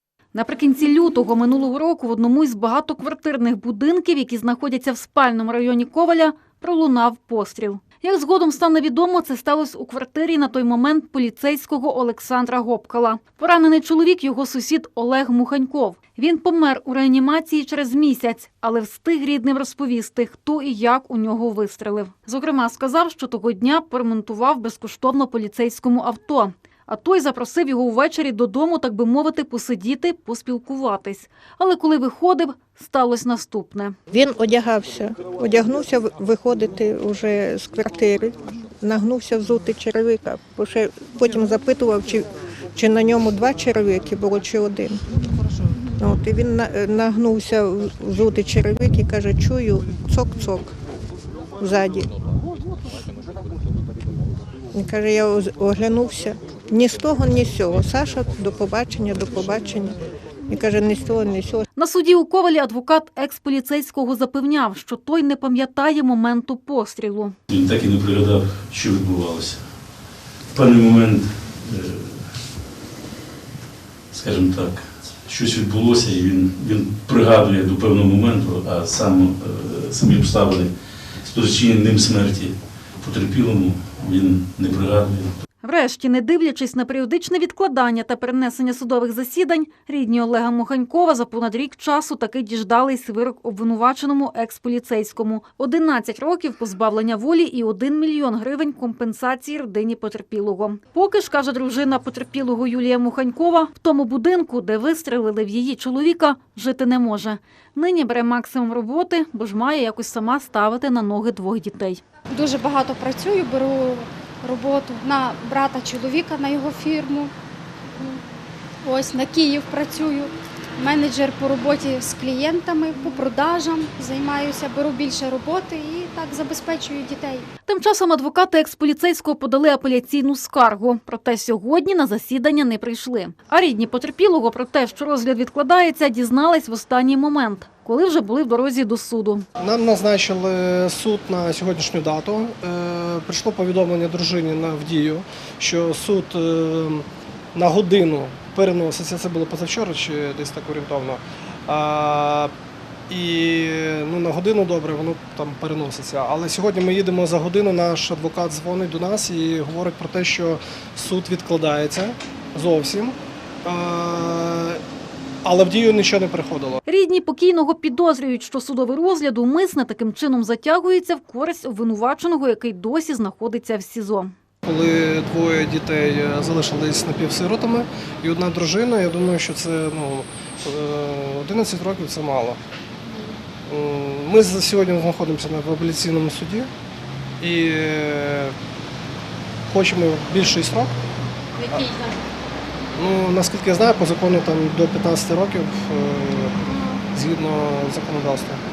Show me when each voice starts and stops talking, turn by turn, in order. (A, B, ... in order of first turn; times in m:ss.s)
0:00.3-0:34.0 A
0:34.1-0:45.0 B
0:46.0-0:50.7 B
0:51.6-0:52.1 B
0:54.8-1:00.0 B
1:00.5-1:01.6 B
1:01.8-1:07.4 A
1:07.5-1:09.6 C
1:10.5-1:12.3 C
1:14.1-1:20.7 C
1:21.2-1:25.3 C
1:25.6-1:52.0 A
1:52.3-1:57.3 D
1:58.8-2:07.5 D
2:07.7-2:19.5 A
2:19.6-2:32.5 E
2:33.1-2:44.8 E
2:45.4-2:46.8 E
2:46.9-2:54.3 A
2:54.6-3:02.6 E
3:03.7-3:06.7 E
3:07.4-3:08.6 E
3:09.7-3:10.9 E
3:11.7-3:11.9 E
3:13.0-3:16.6 E
3:17.1-3:18.6 E